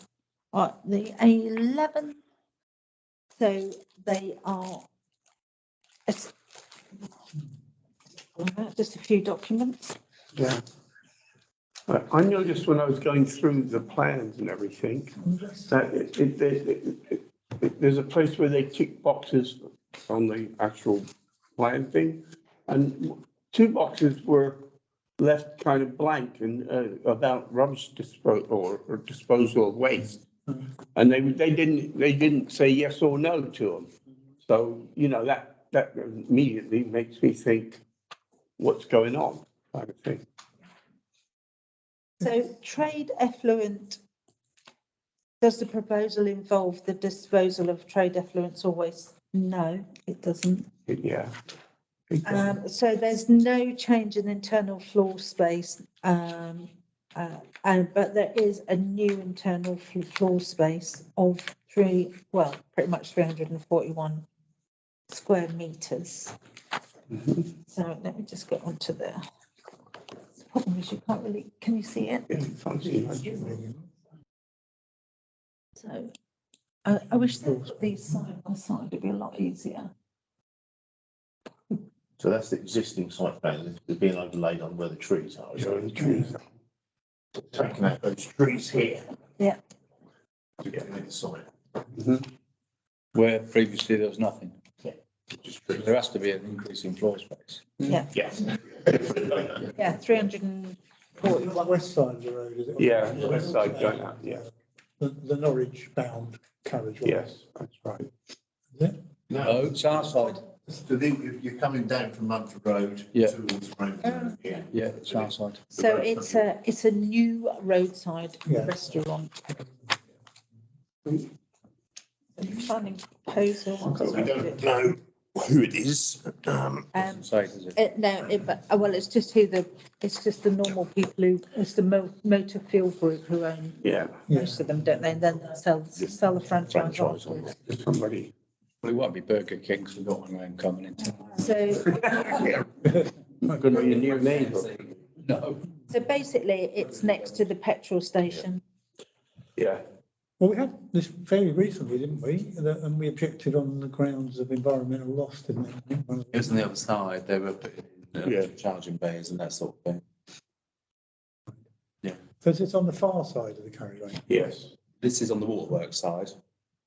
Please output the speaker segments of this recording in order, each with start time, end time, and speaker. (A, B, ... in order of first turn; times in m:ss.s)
0:00.5-0:02.2 A
0:03.4-0:04.9 A
0:06.1-0:06.3 A
0:08.4-0:10.0 A
0:10.3-0:10.6 B
0:11.9-0:24.6 B
0:25.2-0:30.2 B
0:30.9-0:33.9 B
0:34.4-0:37.8 B
0:38.6-0:40.2 B
0:42.2-0:44.0 A
0:45.4-0:50.7 A
0:50.9-0:51.3 B
0:52.1-0:52.6 B
0:52.2-1:04.2 A
1:05.1-1:06.3 A
1:07.1-1:07.4 B
1:07.6-1:09.2 A
1:10.4-1:12.3 A
1:12.3-1:13.4 B
1:12.9-1:13.9 C
1:15.8-1:16.1 A
1:16.8-1:19.9 A
1:17.4-1:17.8 C
1:22.2-1:26.1 D
1:25.6-1:26.3 B
1:26.0-1:26.3 C
1:27.5-1:29.0 D
1:30.6-1:31.4 D
1:32.0-1:32.2 B
1:33.1-1:34.6 E
1:34.8-1:35.7 D
1:35.7-1:38.0 E
1:38.1-1:39.6 D
1:39.7-1:41.7 A
1:41.2-1:44.4 C
1:42.8-1:44.4 B
1:45.0-1:47.2 C
1:47.0-1:48.1 B
1:49.3-1:49.6 D
1:49.4-1:50.4 E
1:50.5-1:56.4 D
1:54.0-1:54.3 A
1:54.7-1:55.6 E
1:55.7-1:59.6 A
1:58.4-1:58.7 C
2:02.4-2:04.6 A
2:04.1-2:06.9 D
2:06.9-2:17.5 A
2:07.1-2:07.8 E
2:13.8-2:14.2 B
2:14.3-2:14.6 C
2:16.7-2:17.5 D
2:17.6-2:18.3 B
2:18.8-2:21.4 E
2:21.1-2:22.5 A
2:22.8-2:23.8 C
2:23.4-2:25.0 B
2:24.3-2:25.6 E
2:25.9-2:28.6 A
2:29.6-2:29.8 B
2:30.4-2:36.6 C
2:36.3-2:40.0 F
2:38.2-2:38.5 D
2:42.4-2:44.3 C
2:44.3-2:44.7 B
2:45.0-2:46.3 F